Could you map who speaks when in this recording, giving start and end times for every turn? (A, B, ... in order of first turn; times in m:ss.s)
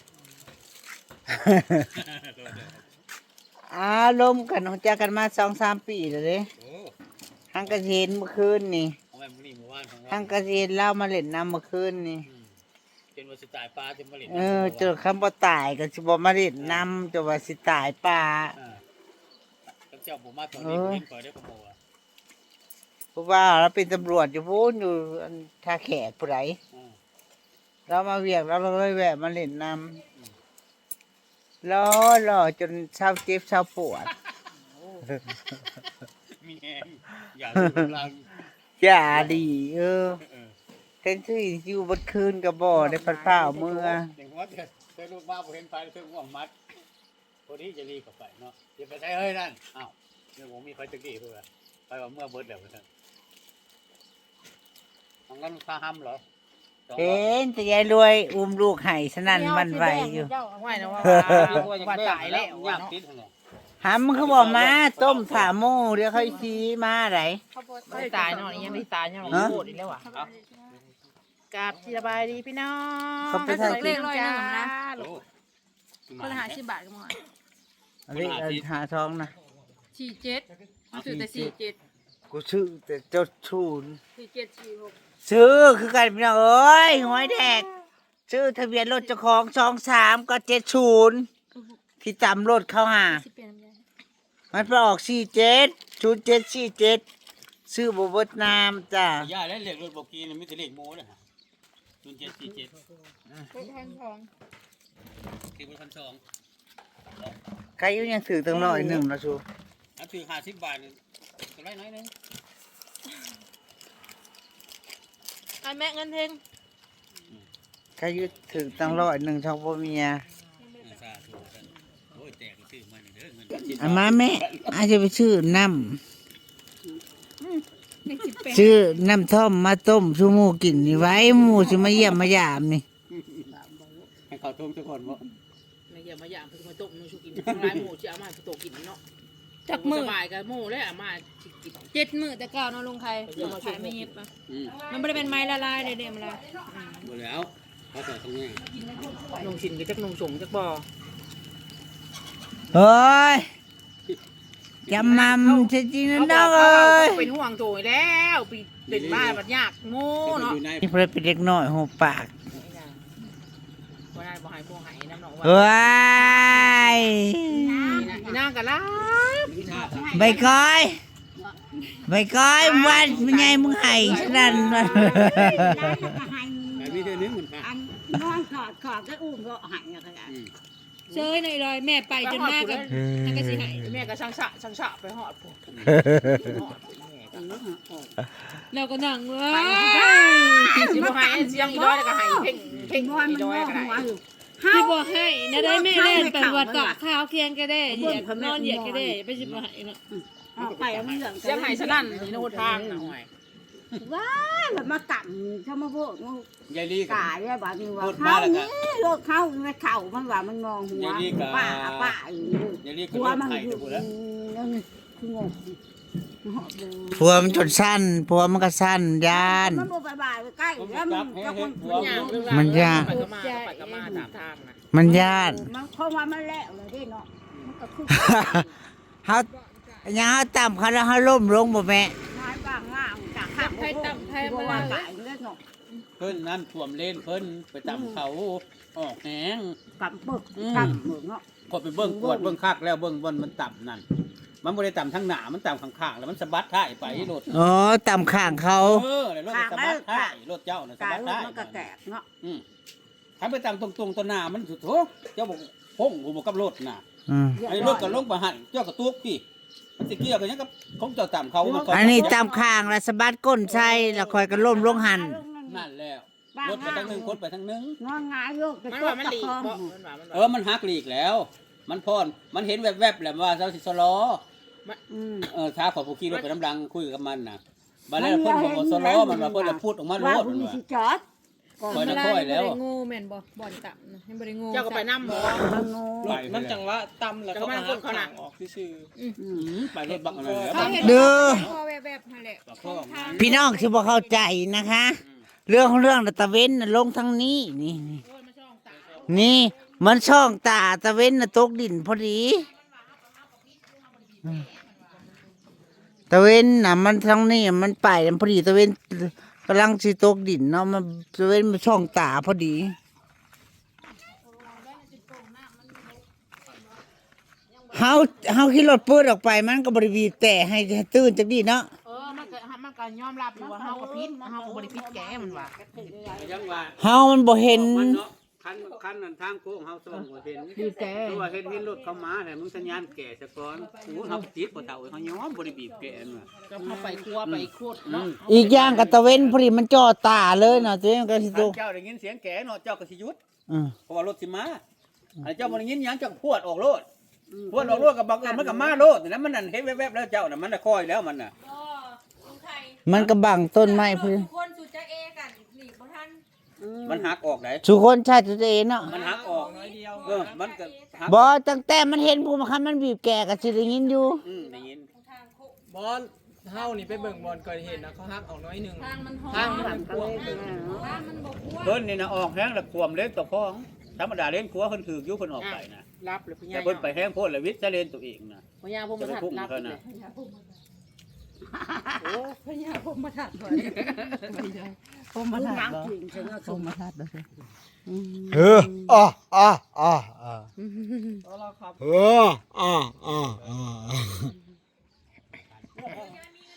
0:01.3-0:01.9 A
0:01.9-0:02.8 B
0:03.7-0:06.5 A
0:06.6-0:06.9 B
0:07.5-0:09.0 A
0:09.1-0:10.4 B
0:10.1-0:12.2 A
0:12.2-0:12.6 B
0:13.1-0:15.0 B
0:14.3-0:18.5 A
0:16.6-0:16.9 B
0:18.6-0:18.8 B
0:19.9-0:21.8 B
0:20.6-0:21.0 A
0:23.1-0:26.6 A
0:26.7-0:27.0 B
0:27.9-0:30.0 A
0:31.6-0:34.1 A
0:36.4-0:38.4 B
0:37.6-0:37.9 A
0:38.8-0:40.2 A
0:39.1-0:39.5 B
0:40.2-0:40.5 B
0:41.0-0:44.1 A
0:42.7-0:43.9 C
0:44.0-0:46.5 B
0:47.5-0:52.8 B
0:55.3-0:56.2 B
0:56.9-0:57.3 B
0:57.0-1:00.3 A
0:59.3-1:01.1 D
1:00.4-1:02.9 E
1:01.0-1:01.6 A
1:01.2-1:03.3 B
1:03.8-1:07.4 A
1:04.1-1:05.5 B
1:06.1-1:06.4 D
1:07.5-1:08.8 D
1:07.9-1:10.0 E
1:09.2-1:10.3 B
1:10.1-1:10.7 D
1:11.5-1:15.2 E
1:13.3-1:14.0 A
1:13.5-1:14.7 D
1:15.0-1:15.2 B
1:16.1-1:16.6 B
1:16.2-1:17.1 D
1:18.1-1:19.3 A
1:18.1-1:18.6 B
1:19.9-1:20.5 D
1:20.9-1:21.5 A
1:21.0-1:21.8 D
1:22.3-1:24.0 A
1:24.2-1:24.7 D
1:25.2-1:27.7 A
1:27.1-1:27.6 D
1:28.3-1:31.3 A
1:32.0-1:33.2 A
1:33.1-1:33.8 D
1:34.5-1:37.0 A
1:37.7-1:39.3 A
1:39.2-1:41.2 B
1:42.0-1:42.8 B
1:43.5-1:44.3 D
1:45.5-1:46.2 B
1:47.8-1:49.4 A
1:48.7-1:49.0 D
1:50.0-1:52.1 B
1:55.6-1:56.4 D
1:58.0-2:00.2 A
1:58.2-1:59.0 B
2:00.8-2:04.8 B
2:03.8-2:06.0 A
2:08.0-2:08.8 D
2:08.5-2:12.8 A
2:10.7-2:12.3 C
2:13.1-2:13.5 B
2:13.4-2:14.1 C
2:14.3-2:15.2 B
2:15.9-2:19.0 E
2:17.4-2:17.8 B
2:19.6-2:20.2 D
2:19.7-2:21.9 E
2:21.9-2:26.4 D
2:23.2-2:24.1 E
2:23.4-2:24.8 B
2:26.7-2:27.0 E
2:27.0-2:28.7 B
2:29.3-2:30.8 E
2:32.7-2:33.5 A
2:34.9-2:37.3 A
2:34.9-2:40.6 E
2:38.9-2:39.4 B
2:40.2-2:40.9 B
2:40.8-2:42.3 A
2:42.5-2:43.0 E
2:44.1-2:47.2 E
2:45.4-2:48.1 A
2:47.5-2:48.4 C
2:47.8-2:49.6 E
2:49.5-2:50.4 B
2:49.6-2:50.6 C
2:50.1-2:51.0 A
2:52.1-2:56.0 A
2:52.6-2:55.0 E
2:52.9-2:53.3 B
2:54.1-3:00.4 C
2:54.1-2:54.9 B
2:54.1-2:55.3 D
2:56.7-2:57.7 B
3:00.2-3:00.5 B
3:01.1-3:03.8 D
3:02.2-3:03.1 E
3:03.1-3:03.4 A
3:03.7-3:05.6 E
3:05.7-3:06.0 B
3:06.0-3:06.3 A
3:06.1-3:07.6 E
3:07.3-3:08.2 C
3:08.7-3:10.7 D
3:09.5-3:14.1 E
3:10.6-3:17.0 C
3:11.7-3:12.8 D
3:14.7-3:20.0 D
3:17.8-3:19.2 C
3:19.3-3:19.7 B
3:20.1-3:23.1 C
3:20.6-3:21.4 B
3:21.4-3:23.3 E
3:24.0-3:26.5 C
3:26.7-3:27.3 B
3:27.1-3:35.8 C
3:28.0-3:28.7 B
3:30.9-3:32.2 B
3:32.8-3:34.1 B
3:36.4-3:37.8 C
3:37.2-3:39.9 A
3:39.3-3:43.0 C
3:40.8-3:42.4 B
3:41.8-3:44.8 E
3:42.5-3:43.2 A
3:42.9-3:43.9 D
3:43.9-3:44.3 C
3:44.9-3:45.6 A
3:45.0-3:48.8 C
3:48.1-3:48.6 A
3:49.2-3:49.5 A
3:49.6-3:50.0 D
3:50.0-3:52.1 A
3:52.3-3:55.6 C
3:53.5-3:55.1 D
3:56.2-3:59.8 B
3:57.8-3:58.2 C
4:00.0-4:01.4 C
4:00.5-4:01.0 B
4:01.6-4:04.0 B
4:02.0-4:02.6 C
4:04.6-4:07.5 B
4:07.0-4:07.3 C
4:07.5-4:09.0 A
4:08.8-4:11.9 B
4:09.5-4:10.4 C
4:11.0-4:12.2 C
4:13.4-4:17.0 B
4:17.3-4:17.6 A
4:17.5-4:18.2 C
4:17.6-4:19.4 B
4:20.0-4:22.4 B
4:21.6-4:22.7 C
4:21.7-4:25.4 A
4:23.6-4:25.9 C
4:25.6-4:28.0 B
4:26.5-4:27.4 C
4:28.0-4:29.9 C
4:28.9-4:30.5 E
4:30.3-4:34.4 B
4:35.1-4:35.5 C
4:35.4-4:40.8 B
4:38.1-4:41.2 C
4:41.8-4:42.3 C
4:41.8-4:45.2 D
4:41.9-4:42.8 B
4:44.7-4:45.7 E
4:45.2-4:49.1 F
4:45.3-4:46.4 C
4:46.2-4:46.8 B
4:47.5-4:48.3 E
4:49.4-4:49.8 C
4:49.5-4:51.8 B
4:50.1-4:51.3 F
4:50.7-4:54.4 D
4:50.8-4:51.7 A
4:52.6-4:53.5 B
4:53.3-4:58.2 A
4:55.2-4:55.4 B
4:58.2-4:59.5 E
4:59.2-5:02.7 A
5:06.3-5:13.0 A
5:14.5-5:16.2 D
5:17.8-5:18.6 D
5:17.9-5:21.9 A
5:22.0-5:25.7 E
5:23.5-5:26.9 C
5:26.3-5:27.0 B
5:27.0-5:28.2 A
5:27.6-5:36.5 B
5:30.7-5:31.5 C
5:36.7-5:39.0 E
5:36.8-5:37.2 C
5:37.5-5:39.6 B
5:38.5-5:41.8 A
5:40.6-5:40.9 B
5:41.5-5:43.4 B
5:43.7-5:43.9 A
5:44.1-5:44.8 B
5:45.4-5:47.0 B
5:47.5-5:49.0 C
5:47.7-5:51.5 B
5:51.6-5:53.0 D
5:53.1-5:54.5 A
5:53.7-5:56.4 D
5:56.8-5:57.3 C
5:57.0-5:57.8 B
5:57.8-5:59.2 A
5:59.0-6:00.6 F
5:59.0-6:01.5 B
5:59.6-6:01.2 D
6:01.2-6:04.4 A
6:04.4-6:05.1 B
6:04.6-6:05.8 D
6:05.9-6:10.5 F
6:06.7-6:08.1 D
6:09.0-6:10.6 E
6:09.5-6:11.2 C
6:10.2-6:12.0 D
6:11.8-6:16.0 B
6:15.6-6:17.2 E
6:16.7-6:18.6 B
6:18.8-6:20.0 E
6:19.2-6:20.0 B
6:20.0-6:20.7 D
6:22.2-6:24.6 E
6:23.8-6:24.4 D
6:25.3-6:26.1 A
6:25.5-6:26.9 C
6:27.0-6:27.4 A
6:28.0-6:29.2 C
6:28.5-6:30.7 A
6:31.6-6:31.9 F
6:32.0-6:34.4 A
6:33.3-6:34.1 B
6:35.6-6:36.4 B